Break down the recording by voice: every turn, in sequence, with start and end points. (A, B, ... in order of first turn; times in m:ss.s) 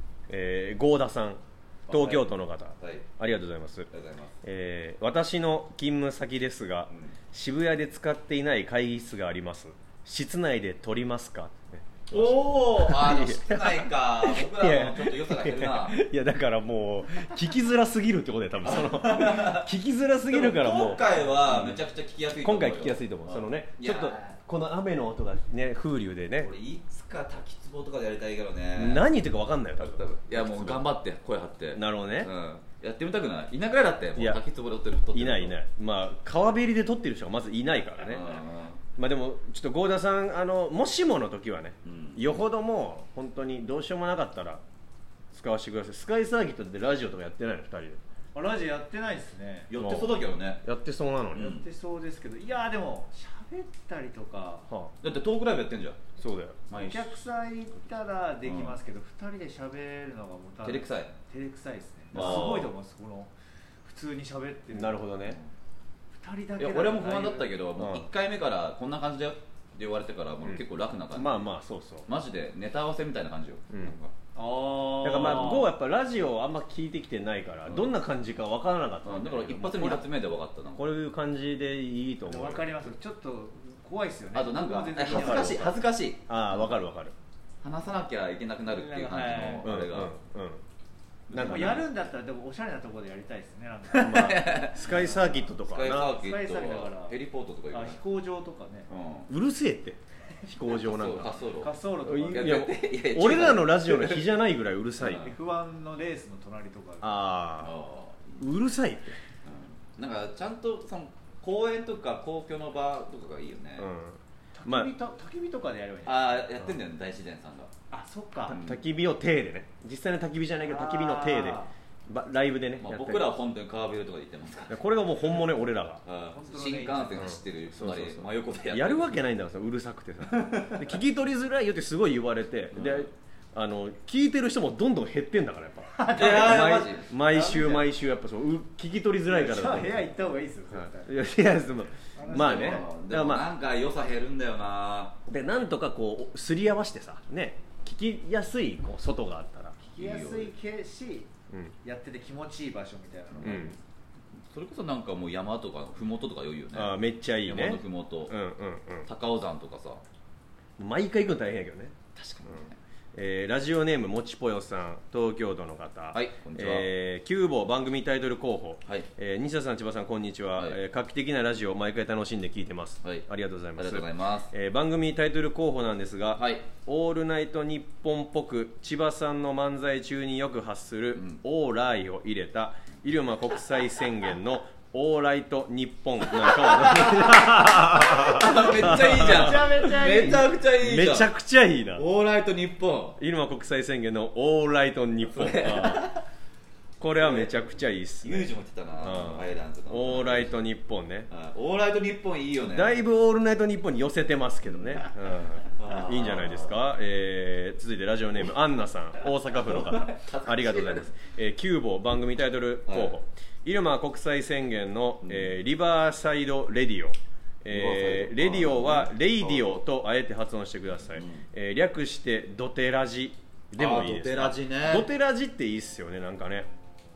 0:00.3-0:03.9 A
0:01.9-0:03.0 B
0:03.9-0:04.4 B
0:04.4-0:21.8 A
0:06.9-0:07.2 B
0:12.1-0:16.0 B
0:18.6-0:19.7 B
0:20.3-0:24.4 B
0:22.4-0:26.5 A
0:26.4-0:29.0 B
0:28.7-0:30.9 A
0:29.8-0:35.6 B
0:31.7-0:32.3 A
0:34.2-0:34.4 A
0:35.1-0:38.4 A
0:38.0-0:38.8 B
0:39.0-0:44.6 A
0:41.8-0:42.3 B
0:45.3-0:48.0 A
0:48.3-0:49.7 C
0:49.7-0:50.6 B
0:49.8-0:51.5 A
0:51.3-0:51.6 B
0:51.3-0:54.7 C
0:55.0-0:56.0 B
0:56.2-0:56.6 A
0:56.7-0:57.2 B
0:56.7-1:03.3 C
0:58.4-0:58.8 B
1:00.6-1:01.1 B
1:02.1-1:02.7 B
1:02.1-1:02.6 A
1:03.8-1:05.0 C
1:04.7-1:05.4 A
1:06.1-1:07.5 C
1:06.6-1:11.4 B
1:07.8-1:08.1 A
1:11.1-1:12.0 A
1:12.0-1:14.1 B
1:13.7-1:14.0 A
1:14.3-1:15.7 C
1:15.0-1:20.0 A
1:15.2-1:15.6 B
1:17.7-1:17.9 B
1:19.0-1:20.9 B
1:20.8-1:22.7 A
1:22.2-1:25.8 C
1:24.3-1:26.8 B
1:25.1-1:25.7 A
1:26.3-1:27.1 A
1:27.6-1:30.1 B
1:28.7-1:29.7 C
1:29.6-1:30.6 A
1:31.3-1:31.9 B
1:31.3-1:31.8 A
1:31.3-1:35.5 C
1:33.9-1:35.0 B
1:34.0-1:36.2 A
1:35.6-1:38.0 B
1:36.2-1:37.2 C
1:37.7-1:38.9 C
1:38.9-1:39.3 B
1:39.3-1:41.3 A
1:40.8-1:44.3 B
1:41.6-1:42.7 C
1:42.0-1:45.3 A
1:45.0-1:45.3 B
1:45.1-1:47.2 C
1:47.0-1:47.7 A
1:47.6-1:48.4 B
1:48.4-1:49.2 A
1:49.4-1:53.9 B
1:53.8-1:54.9 A
1:54.5-1:56.4 C
1:56.0-1:57.7 B
1:57.9-1:58.6 C
1:58.5-1:58.8 B
1:58.5-2:03.2 A
2:00.6-2:01.7 C
2:02.8-2:04.8 B
2:04.7-2:06.0 A
2:06.0-2:09.2 B
2:06.3-2:07.3 C
2:07.2-2:20.1 A
2:10.3-2:10.8 C
2:12.7-2:13.1 B
2:15.9-2:17.8 C
2:16.1-2:17.1 B
2:19.2-2:21.2 C
2:20.7-2:23.5 A
2:22.2-2:22.9 C
2:22.3-2:25.2 B
2:25.3-2:29.8 A
2:29.8-2:31.3 C
2:30.0-2:30.5 B
2:31.8-2:33.8 C
2:33.3-2:33.7 B
2:33.4-2:33.7 A
2:34.5-2:38.3 B
2:36.7-2:39.1 A
2:39.0-2:40.0 B
2:40.8-2:42.0 A
2:42.1-2:42.8 B
2:43.1-3:12.0 A
2:46.1-2:46.9 B
2:53.0-2:54.5 B
2:56.3-2:56.7 B
3:01.1-3:01.4 B
3:06.3-3:11.3 B
3:08.9-3:10.5 C
3:12.0-3:13.2 B
3:13.2-3:16.1 A
3:15.3-3:16.2 B
3:17.0-3:21.3 A
3:17.2-3:17.5 B
3:18.2-3:20.5 B
3:21.3-3:23.0 B
3:22.7-3:46.7 A
3:24.7-3:25.1 B
3:25.8-3:26.8 B
3:29.6-3:31.1 B
3:32.9-3:33.1 B
3:35.2-3:35.5 B
3:37.7-3:39.8 B
3:41.1-3:41.4 B
3:43.8-3:45.1 B